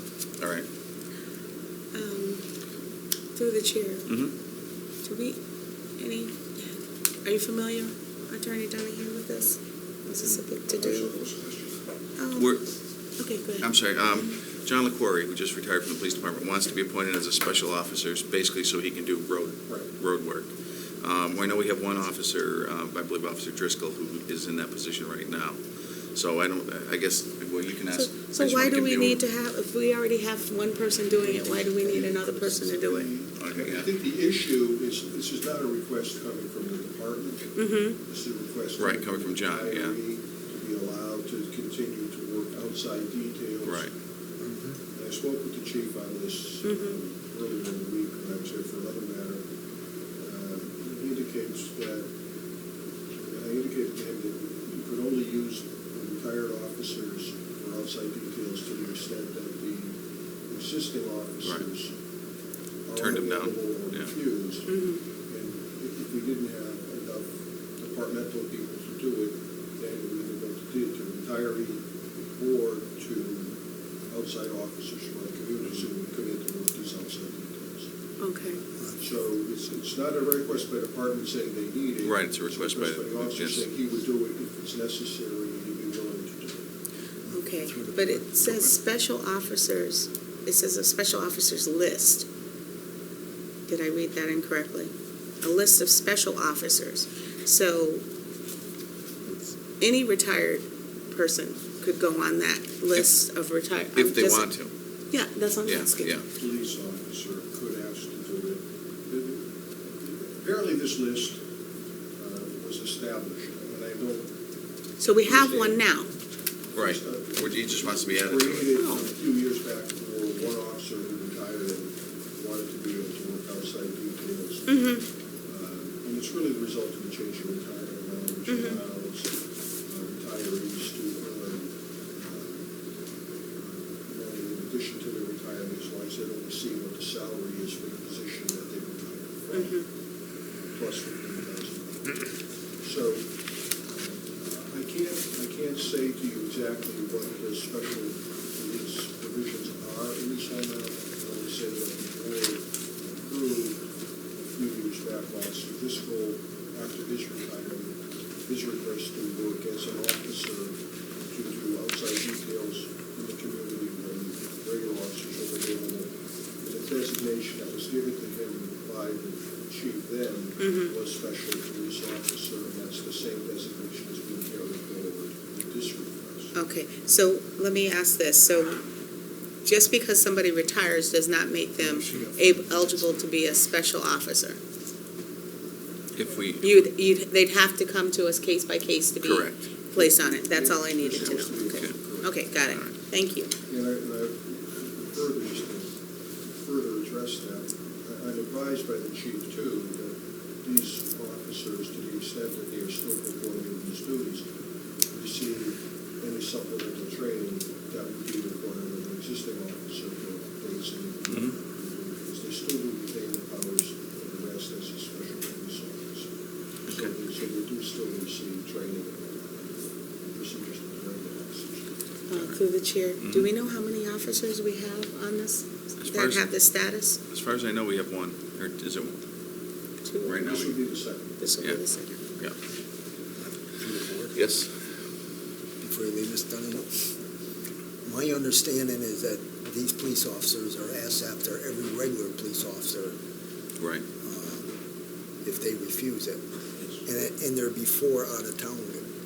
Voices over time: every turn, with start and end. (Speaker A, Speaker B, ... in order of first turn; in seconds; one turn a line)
Speaker A: 0.4-0.7
Speaker B: 1.9-2.4
Speaker B: 3.4-4.1
Speaker A: 4.1-4.3
Speaker B: 5.0-5.4
Speaker B: 6.0-6.7
Speaker B: 7.2-11.1
Speaker C: 10.7-11.8
Speaker B: 12.2-12.5
Speaker A: 12.3-12.6
Speaker B: 13.2-14.3
Speaker A: 13.6-25.6
Speaker A: 26.1-29.2
Speaker B: 27.9-33.1
Speaker C: 31.2-43.8
Speaker A: 33.4-33.9
Speaker B: 37.6-38.0
Speaker A: 38.8-40.0
Speaker A: 43.6-43.9
Speaker D: 44.4-44.7
Speaker C: 44.9-49.4
Speaker B: 46.6-46.9
Speaker C: 50.2-52.0
Speaker C: 53.3-59.9
Speaker C: 60.5-61.9
Speaker C: 62.9-64.7
Speaker A: 63.0-64.1
Speaker B: 64.7-65.0
Speaker C: 65.3-67.3
Speaker C: 67.8-71.8
Speaker C: 72.4-73.5
Speaker C: 74.1-77.9
Speaker B: 78.2-78.6
Speaker C: 79.0-86.6
Speaker A: 82.0-83.6
Speaker D: 87.3-88.2
Speaker B: 87.3-92.2
Speaker B: 93.7-94.9
Speaker B: 95.4-98.0
Speaker B: 99.3-104.5
Speaker A: 103.9-104.7
Speaker B: 105.1-106.2
Speaker A: 105.6-106.2
Speaker C: 106.3-109.4
Speaker C: 110.3-111.4
Speaker C: 112.2-114.2
Speaker B: 115.0-116.1
Speaker C: 115.2-115.8
Speaker A: 116.7-118.8
Speaker C: 116.7-124.8
Speaker B: 118.7-119.0
Speaker B: 124.7-125.0
Speaker C: 125.5-129.3
Speaker B: 128.5-128.8
Speaker C: 129.9-132.6
Speaker C: 133.6-139.8
Speaker B: 139.5-139.8
Speaker C: 140.7-142.2
Speaker C: 142.8-143.2
Speaker C: 143.9-153.8
Speaker C: 154.6-157.9
Speaker C: 158.4-160.7
Speaker C: 161.3-166.1
Speaker C: 166.6-176.5
Speaker B: 170.6-170.9
Speaker B: 176.5-178.8
Speaker B: 179.6-184.6
Speaker A: 186.2-186.8
Speaker B: 186.6-193.5
Speaker A: 189.2-189.6
Speaker C: 189.9-192.3
Speaker A: 192.7-192.9
Speaker C: 193.7-195.9
Speaker C: 196.6-204.4
Speaker C: 205.1-216.3
Speaker A: 211.3-211.5
Speaker A: 216.9-217.1
Speaker C: 216.9-221.9
Speaker B: 222.3-227.2
Speaker A: 223.2-223.5
Speaker A: 226.0-226.4
Speaker A: 227.3-229.2
Speaker B: 230.1-230.4
Speaker A: 230.2-230.8
Speaker C: 230.3-231.3
Speaker B: 231.4-232.2
Speaker D: 233.4-234.3
Speaker A: 234.3-234.7
Speaker D: 235.8-237.1
Speaker D: 238.0-243.2
Speaker A: 243.8-244.0
Speaker D: 244.2-244.7
Speaker D: 245.4-246.4
Speaker D: 247.0-249.0